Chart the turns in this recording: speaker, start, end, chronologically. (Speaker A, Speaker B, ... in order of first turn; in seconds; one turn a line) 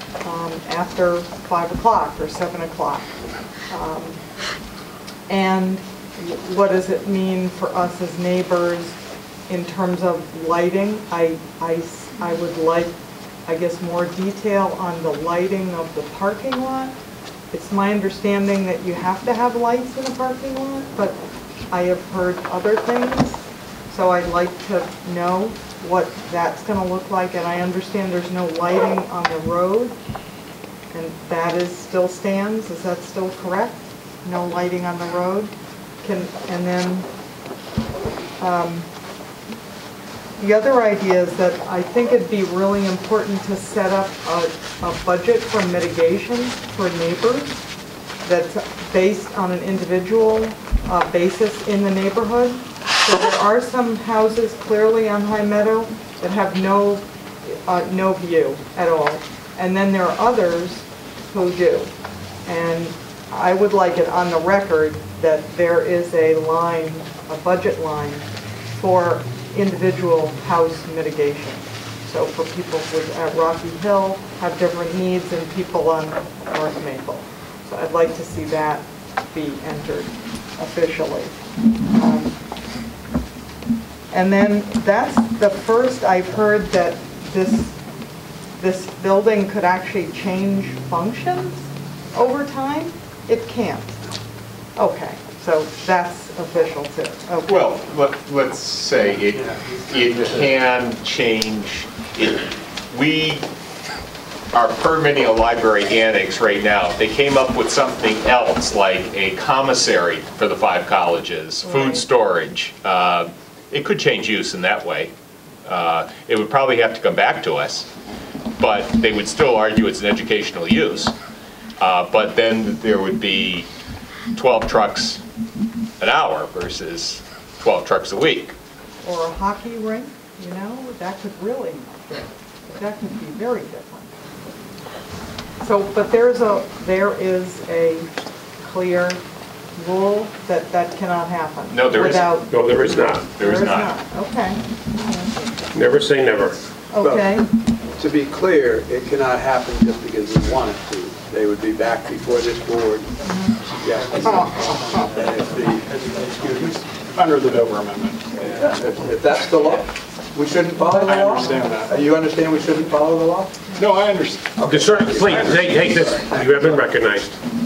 Speaker A: 0.2-3.1
Speaker A: 3.7-4.2
Speaker A: 5.3-16.9
Speaker A: 17.5-21.2
Speaker A: 21.7-30.0
Speaker A: 30.9-37.1
Speaker A: 38.4-38.9
Speaker A: 40.4-47.6
Speaker A: 48.2-61.9
Speaker A: 62.5-82.4
Speaker A: 84.1-87.8
Speaker A: 88.6-94.1
Speaker A: 94.8-97.8
Speaker B: 97.5-103.5
Speaker C: 99.4-100.2
Speaker B: 104.5-115.1
Speaker B: 115.7-117.9
Speaker B: 118.6-121.1
Speaker B: 121.8-123.7
Speaker B: 124.3-125.2
Speaker B: 126.0-128.6
Speaker A: 129.0-134.2
Speaker A: 135.6-139.2
Speaker A: 139.8-145.5
Speaker B: 141.7-144.0
Speaker D: 142.5-143.3
Speaker D: 145.7-146.6
Speaker A: 146.9-147.5
Speaker C: 147.0-147.4
Speaker C: 147.9-153.1
Speaker A: 153.2-153.6
Speaker C: 153.8-156.8
Speaker A: 154.4-154.6
Speaker E: 157.1-158.4
Speaker C: 158.4-163.7
Speaker A: 160.8-161.8
Speaker E: 161.1-161.9
Speaker E: 163.8-164.6
Speaker C: 164.6-166.9
Speaker D: 164.6-167.4